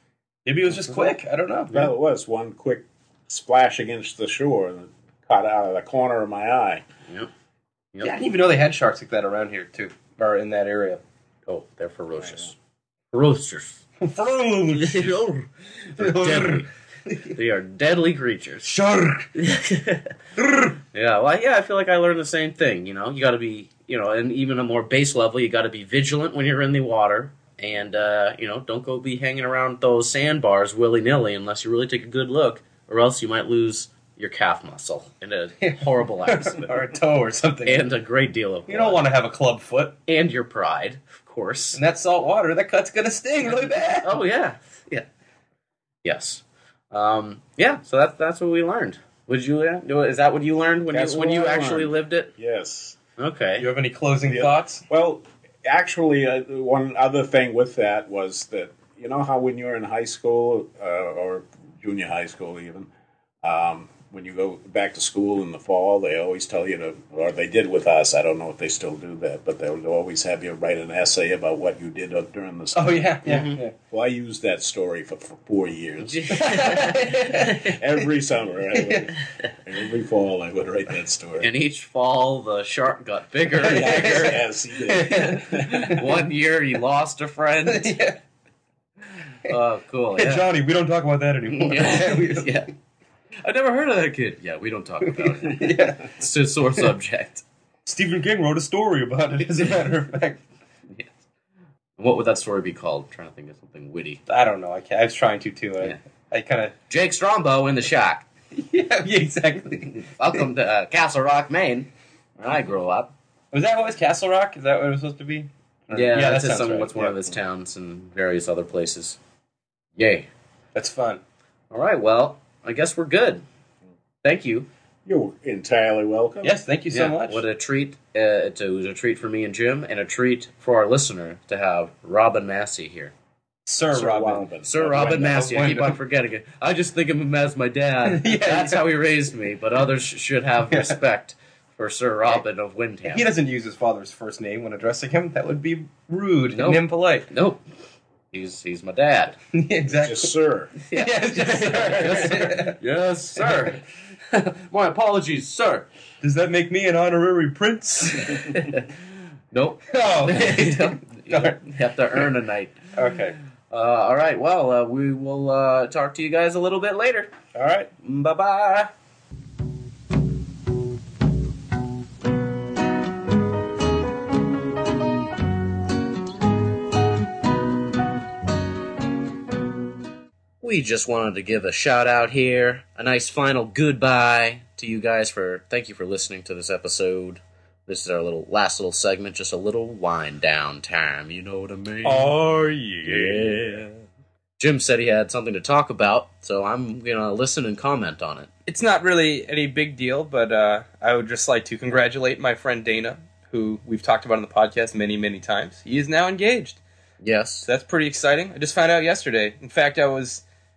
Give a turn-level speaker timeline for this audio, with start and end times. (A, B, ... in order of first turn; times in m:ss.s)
0:00.4-0:01.7 A
0:01.7-0:06.8 B
0:08.0-0:11.0 A
0:11.5-0:12.5 C
0:13.1-0:13.8 C
0:14.0-0:15.2 A
0:14.7-0:16.7 C
0:16.0-0:17.3 A
0:17.3-0:18.7 C
0:18.6-0:19.3 A
0:19.4-0:20.1 C
0:20.7-0:36.8 C
0:35.6-0:37.9 A
0:37.6-0:39.0 C
0:38.7-0:40.0 A
0:40.1-0:41.8 C
0:41.7-0:44.1 A
0:44.0-0:45.1 C
0:46.0-0:52.3 C
0:50.9-0:53.0 B
0:53.2-0:53.7 C
0:53.6-0:54.8 A
0:54.2-1:02.9 B
1:03.4-1:13.2 B
1:12.7-1:13.7 A
1:13.2-1:13.6 C
1:13.9-1:16.6 B
1:16.0-1:17.8 C
1:16.3-1:17.6 A
1:17.5-1:21.5 B
1:18.7-1:19.0 A
1:21.4-1:24.4 C
1:23.6-1:26.0 A
1:23.7-1:26.0 B
1:25.5-1:28.0 C
1:27.6-1:28.2 A
1:29.4-1:30.4 C
1:30.2-1:32.6 A
1:31.5-1:32.7 C
1:33.4-1:37.4 C
1:35.0-1:36.1 A
1:37.8-1:40.4 A
1:42.0-1:44.2 C
1:44.3-1:46.7 A
1:46.9-1:48.3 C
1:48.5-1:50.1 A
1:50.0-1:53.1 C
1:53.5-1:57.2 A
1:55.9-1:59.2 C
2:00.0-2:00.3 C
2:00.7-2:01.2 A
2:01.7-2:03.4 C
2:04.2-2:04.7 C
2:05.0-2:06.6 B
2:06.4-2:07.4 A
2:06.9-2:13.1 C
2:13.6-2:16.0 A
2:13.9-2:15.0 B
2:14.6-2:23.3 C
2:18.1-2:18.8 A
2:20.7-2:21.0 A
2:23.1-2:27.3 A
2:26.5-2:27.6 C
2:28.3-2:29.4 C
2:29.5-2:30.3 A
2:30.0-2:30.7 B
2:30.8-2:35.9 C
2:30.9-2:32.8 A
2:36.2-2:38.6 A
2:38.3-2:38.9 C
2:39.5-2:42.9 C
2:39.9-2:41.6 A
2:42.9-2:43.4 A
2:43.7-2:47.3 C
2:47.5-2:47.9 A
2:48.0-2:48.9 C
3:00.6-3:12.3 C
3:12.0-3:13.8 A
3:13.0-3:13.9 C
3:14.6-3:18.5 C
3:18.7-3:26.8 A
3:27.2-3:27.7 C
3:27.6-3:30.4 A